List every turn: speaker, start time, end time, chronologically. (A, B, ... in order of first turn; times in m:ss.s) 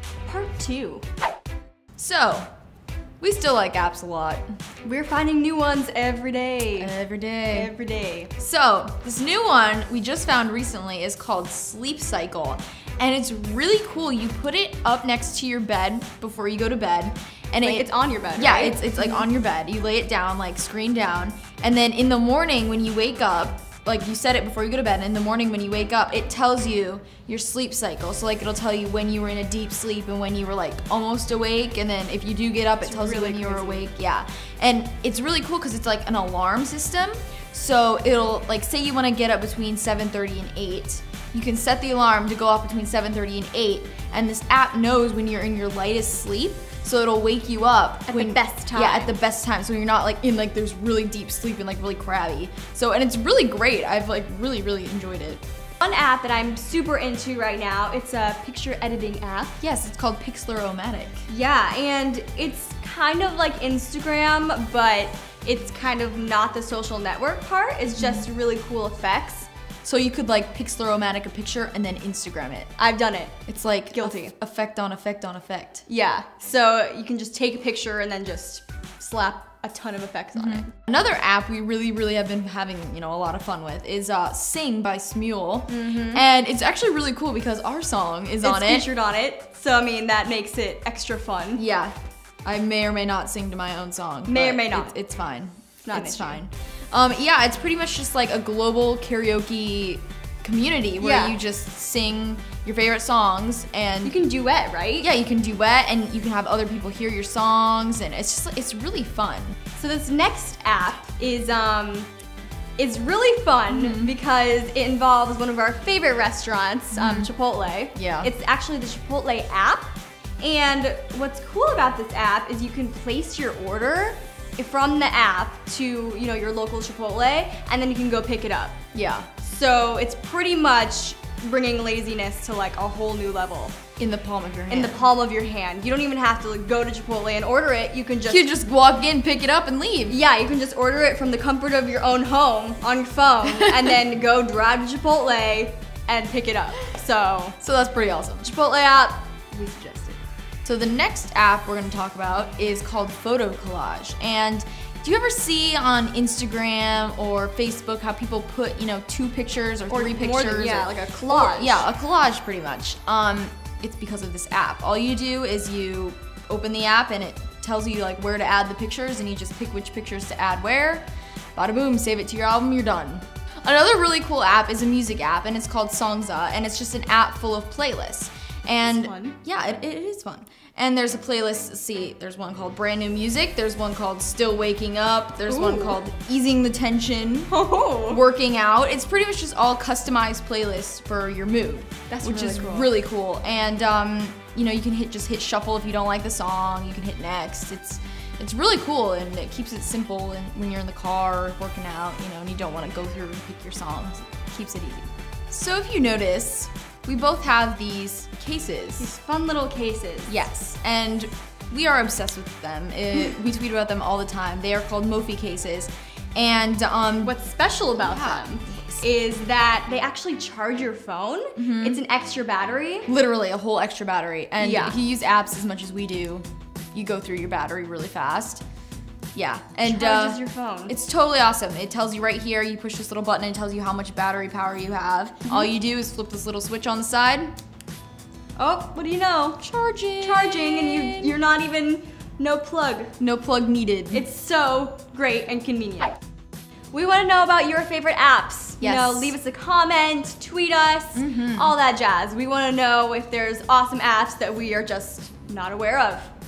0:00.2-0:01.0 A
0:02.0-0:02.5 B
0:03.2-0:04.5 B
0:04.8-0:06.9 A
0:06.8-0:07.7 B
0:07.5-0:08.3 A
0:08.4-0:55.4 B
0:17.6-0:19.2 A
0:32.8-0:33.8 A
0:48.1-0:49.1 A
0:55.8-0:59.6 A
0:59.6-1:01.2 B
1:01.3-1:09.5 A
1:07.9-1:08.2 B
1:09.8-1:12.7 B
1:12.8-1:13.4 A
1:13.5-1:15.8 B
1:13.9-1:14.3 A
1:15.9-1:20.7 A
1:20.3-1:28.9 B
1:25.7-1:26.2 A
1:28.4-1:31.6 A
1:31.6-1:44.2 B
1:34.3-1:34.9 A
1:35.8-1:36.4 A
1:41.0-1:41.4 A
1:44.0-1:45.1 A
1:45.0-1:49.6 B
1:49.7-1:52.1 A
1:52.8-2:08.8 A
1:53.7-1:54.1 B
1:56.9-1:57.3 B
1:57.9-1:58.3 B
2:08.9-2:09.3 B
2:09.4-2:13.8 A
2:14.0-2:15.1 B
2:14.7-2:18.5 A
2:18.2-2:20.2 B
2:20.1-2:27.6 A
2:23.5-2:23.9 B
2:27.6-2:28.5 B
2:28.4-2:30.2 A
2:30.6-2:51.0 B
2:39.9-2:41.8 A
2:51.6-3:07.5 B
2:58.8-2:59.4 A
3:05.5-3:06.0 A
3:07.5-3:08.2 A
3:08.1-3:29.1 B
3:12.1-3:12.9 A
3:29.0-3:30.4 A
3:30.3-3:37.3 B
3:37.2-3:43.1 A
3:38.0-3:39.0 B
3:41.6-3:42.0 B
3:43.1-3:48.6 B
3:44.6-3:45.0 A
3:49.3-3:57.5 B
3:49.8-3:50.9 A
3:55.4-3:55.7 A
3:58.6-3:59.7 A
3:59.6-4:01.3 B
4:00.2-4:03.1 A
4:03.2-4:04.2 B
4:04.1-4:06.2 A
4:06.9-4:16.3 A
4:08.8-4:09.3 B
4:11.1-4:11.8 B